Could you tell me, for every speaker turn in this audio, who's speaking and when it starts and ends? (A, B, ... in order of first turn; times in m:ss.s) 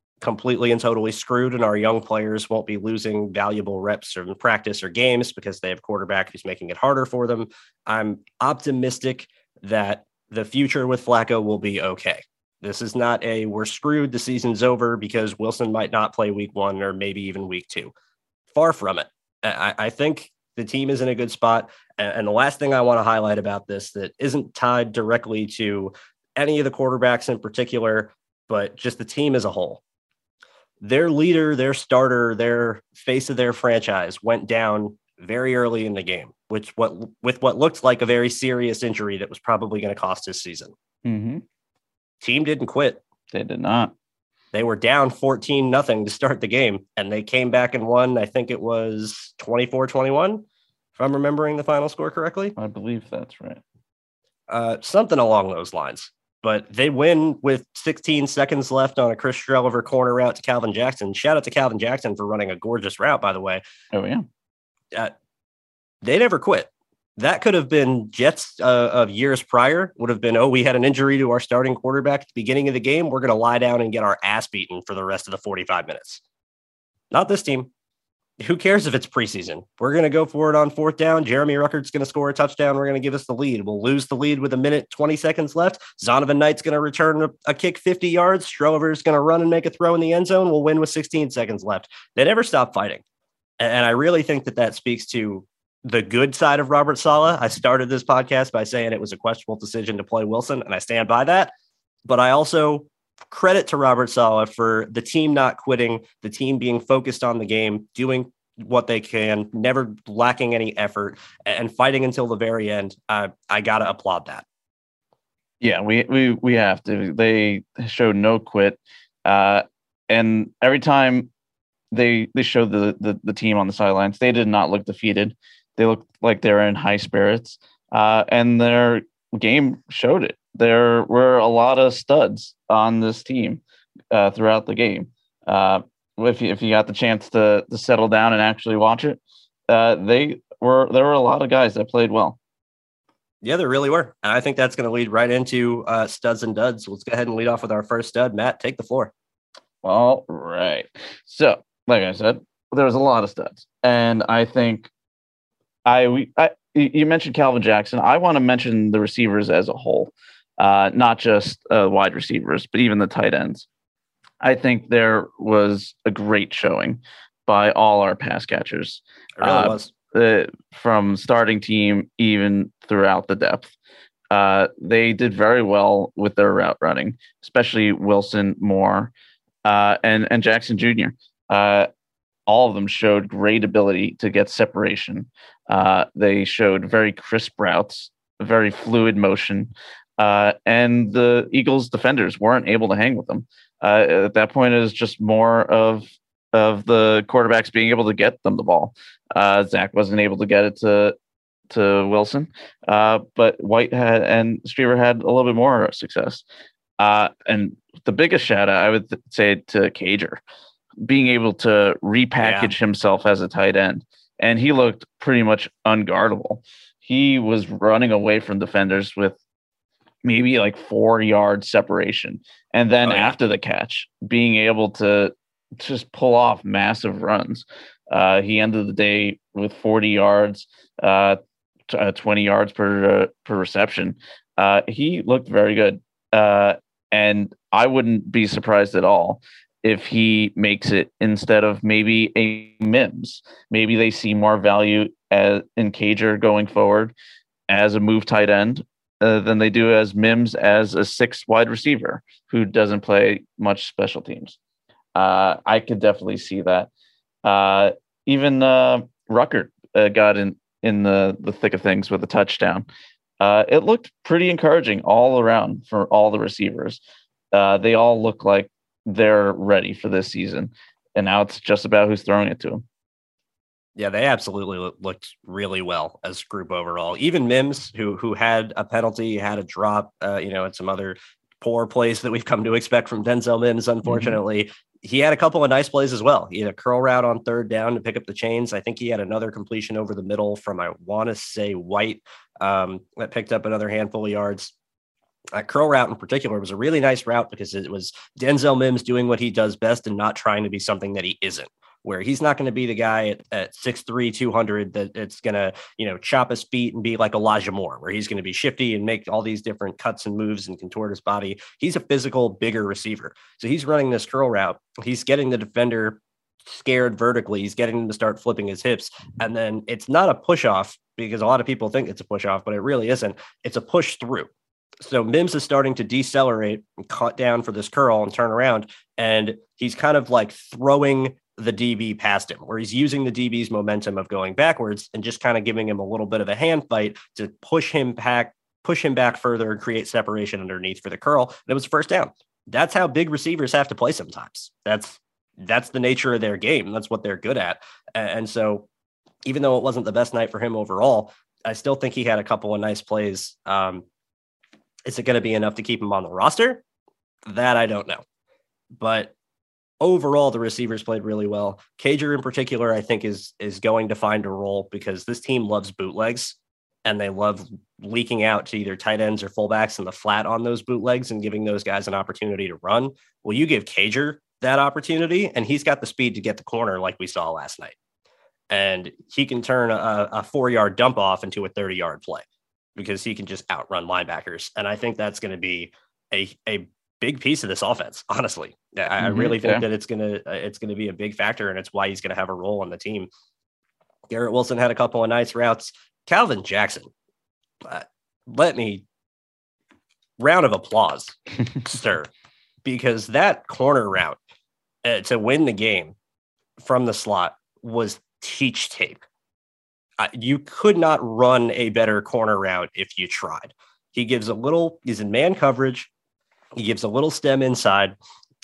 0:00.2-0:17.9 A
0:18.5-0:29.8 A
0:30.8-0:40.7 A
0:41.0-0:41.4 B
0:42.2-0:43.0 A
0:43.3-0:43.9 B
0:44.5-0:50.4 A
0:51.0-0:52.6 A
0:52.6-0:53.6 B
0:54.5-1:03.6 A
1:03.9-1:04.3 B
1:06.0-1:16.2 A
1:17.1-1:17.7 A
1:18.4-1:33.0 A
1:33.6-1:41.5 A
1:42.0-1:54.4 A
1:55.6-2:01.3 B
2:01.9-2:13.6 B
2:14.1-2:22.4 B
2:23.4-2:29.1 A
2:29.8-2:34.9 B
2:35.8-2:43.7 B
2:44.4-2:53.7 B
2:49.4-2:49.9 A
2:54.3-2:59.1 B
2:59.6-3:01.9 B
3:02.5-3:21.2 B
3:21.7-3:26.4 B
3:27.0-3:30.4 B
3:31.0-3:39.4 B
3:32.4-3:32.7 A
3:40.2-4:07.1 B
3:43.0-3:43.4 A
4:07.7-4:14.6 B
4:15.2-4:16.9 B
4:17.4-4:22.9 B
4:23.4-4:27.0 B
4:27.5-4:32.8 B
4:34.0-4:54.7 A
4:44.1-4:44.4 B
4:55.5-5:24.5 A
5:25.0-5:48.9 A
5:49.5-5:54.0 A
5:55.1-5:56.8 A
5:57.5-5:58.2 A
5:58.9-5:59.3 A
6:00.0-6:18.0 A
6:18.7-6:22.4 A
6:23.0-6:33.3 A
6:29.2-6:29.8 B
6:34.3-6:37.1 A
6:37.8-6:39.0 A
6:40.4-6:42.3 A
6:42.8-6:44.4 A
6:45.0-6:46.2 A
6:46.8-6:49.2 A
6:50.2-6:56.1 A
6:56.8-6:58.2 A